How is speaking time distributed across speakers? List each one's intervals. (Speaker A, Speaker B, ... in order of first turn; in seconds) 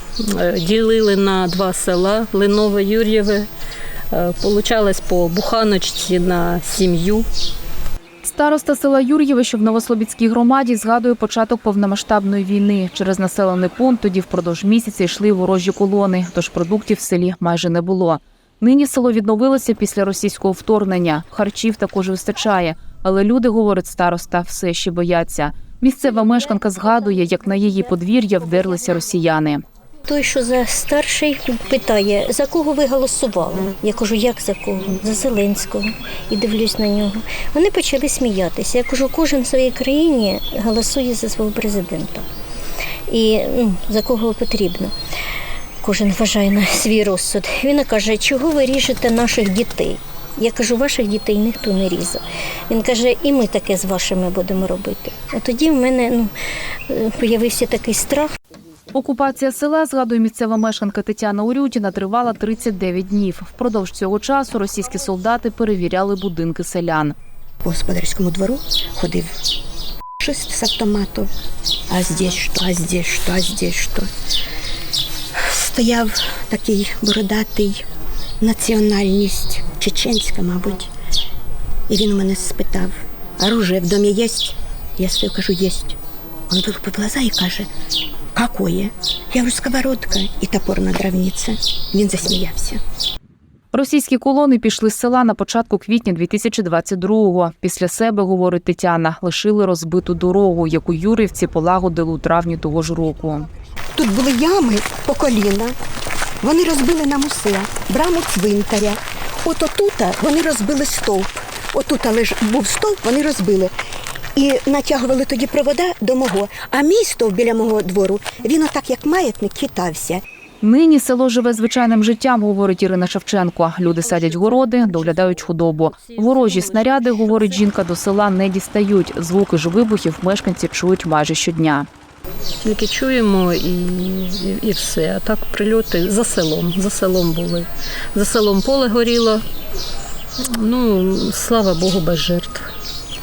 Speaker A: 0.2-3.5, 4.1-7.3, 124.1-127.5, 132.6-139.4, 140.4-142.7
Speaker B: 8.2-29.6, 58.9-67.1, 93.7-103.5, 120.6-131.9
Speaker C: 30.1-42.2, 43.1-44.9, 45.8-56.3, 56.9-58.4
Speaker D: 67.6-69.4, 70.2-71.3, 71.9-74.1, 75.3-77.8, 78.4-80.9, 81.9-86.0, 86.5-87.7, 88.3-92.8, 104.0-105.7, 106.4-113.7, 114.3-120.2